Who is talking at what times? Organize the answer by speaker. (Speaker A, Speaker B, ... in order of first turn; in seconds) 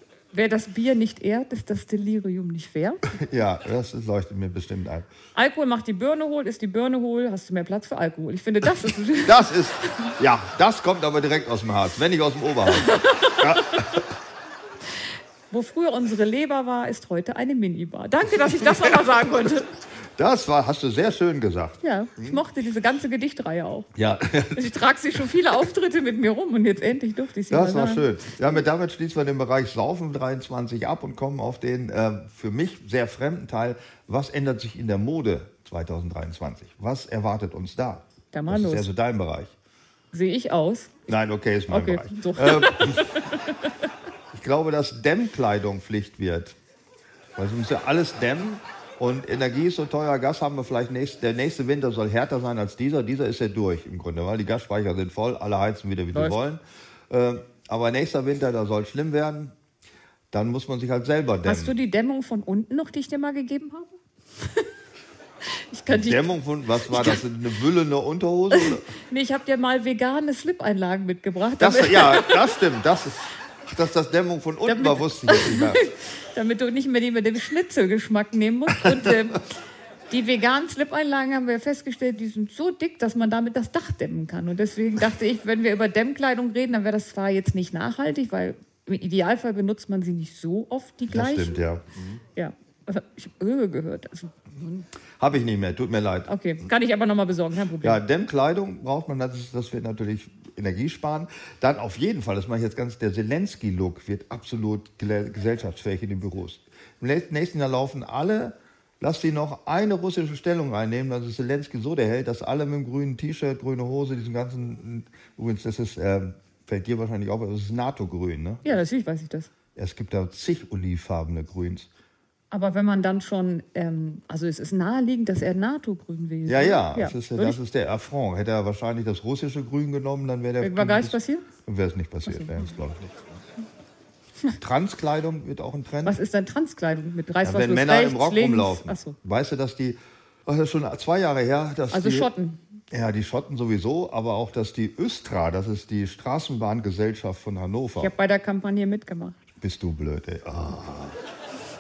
Speaker A: 0.3-3.1, 5.3-10.1, 12.8-14.0, 15.5-19.7, 21.8-23.9, 24.5-28.1, 38.3-38.9, 40.1-41.0, 41.7-43.7, 61.5-64.7, 65.6-66.3, 66.9-67.2, 68.5-72.5, 74.7-79.4, 80.1-91.6, 92.3-94.9, 96.3-98.0, 118.7-119.5, 122.5-127.6, 130.6-131.5, 132.3-132.7, 136.0-139.2, 141.9-142.6, 148.0-149.4
Speaker B: 3.1-5.1, 9.2-14.1, 18.7-19.0, 20.2-22.4, 23.9-24.7, 27.5-39.5, 41.1-43.2, 44.3-46.6, 47.4-59.5, 60.3-61.8, 65.9-68.9, 71.6-75.8, 91.1-92.2, 95.2-96.3, 97.8-118.8, 119.8-121.9, 126.5-133.3, 134.6-136.2, 137.4-142.3, 142.9-148.1, 149.6-151.2